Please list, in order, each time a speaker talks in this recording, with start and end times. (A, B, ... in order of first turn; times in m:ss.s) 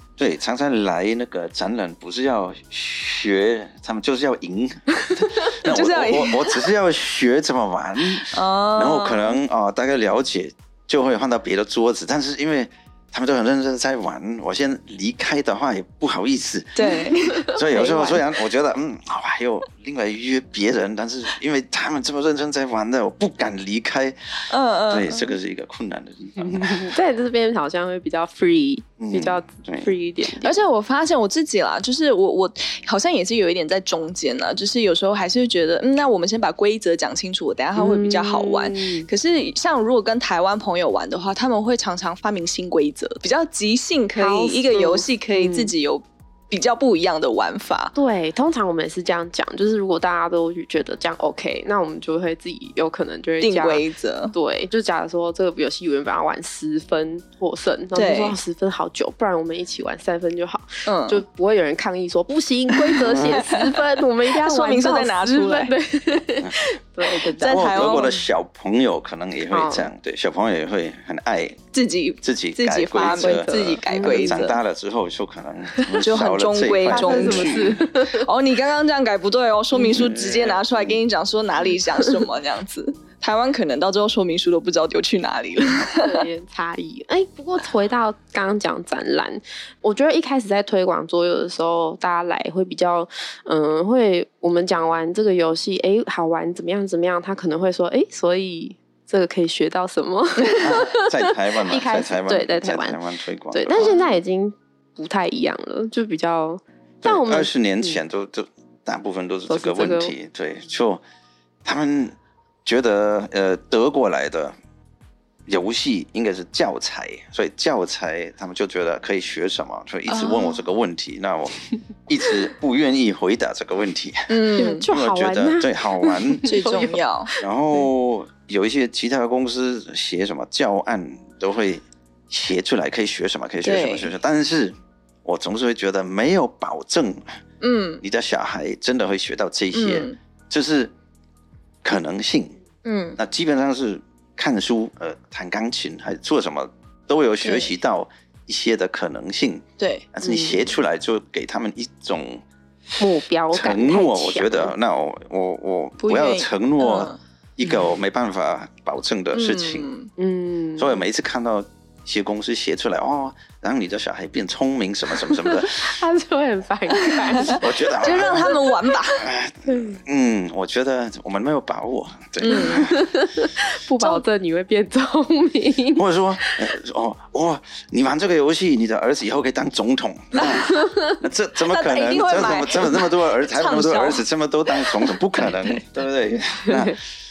0:00.2-0:26.9 A
0:05.4-0:06.6 B
0:08.3-0:09.4 B
0:16.8-0:17.5 B
0:16.8-0:18.2 C
0:24.5-0:25.3 B
0:26.4-0:30.6 C
0:29.0-0:29.9 A
0:30.3-0:47.9 B
0:37.8-0:39.1 C
0:44.1-0:45.7 C
0:47.9-1:08.1 C
0:53.4-0:54.3 B
0:57.9-0:58.4 B
1:00.9-1:01.2 B
1:02.8-1:05.7 B
1:03.1-1:03.4 A
1:07.1-1:08.2 B
1:07.4-1:11.6 A
1:09.5-1:09.9 C
1:11.7-1:14.6 B
1:12.2-1:17.8 A
1:13.0-1:14.4 C
1:15.8-1:26.2 B
1:16.9-1:18.3 C
1:19.8-1:21.0 A
1:26.0-1:43.0 C
1:40.6-1:44.0 A
1:43.5-1:48.0 C
1:47.0-1:51.0 A
1:49.5-1:50.1 C
1:51.6-1:54.6 A
1:55.5-2:06.6 A
2:00.1-2:00.6 B
2:04.3-2:04.8 B
2:04.6-2:07.4 C
2:06.4-2:07.3 B
2:07.4-2:17.4 A
2:13.6-2:14.1 B
2:17.6-2:18.0 B
2:18.0-2:20.9 A
2:19.7-2:20.2 B
2:21.8-2:22.6 A
2:22.8-2:23.2 B
2:23.2-2:32.4 A
2:27.4-2:27.7 B
2:29.8-2:30.1 B
2:30.2-2:30.6 C
2:33.0-2:34.7 C
2:33.5-2:39.9 A
2:36.0-2:37.2 B
2:39.3-2:40.1 B
2:40.2-2:41.0 C
2:40.8-2:46.0 A
2:45.3-2:47.6 C
2:47.0-2:49.3 B
2:47.4-2:48.6 A
2:49.2-2:53.1 A
2:49.6-2:50.0 C
2:52.4-2:52.8 B
2:52.4-2:56.7 C
2:56.0-3:07.0 A
3:00.3-3:00.8 B
3:00.7-3:01.2 C
3:01.7-3:04.2 B
3:04.8-3:05.8 B
3:06.7-3:06.9 C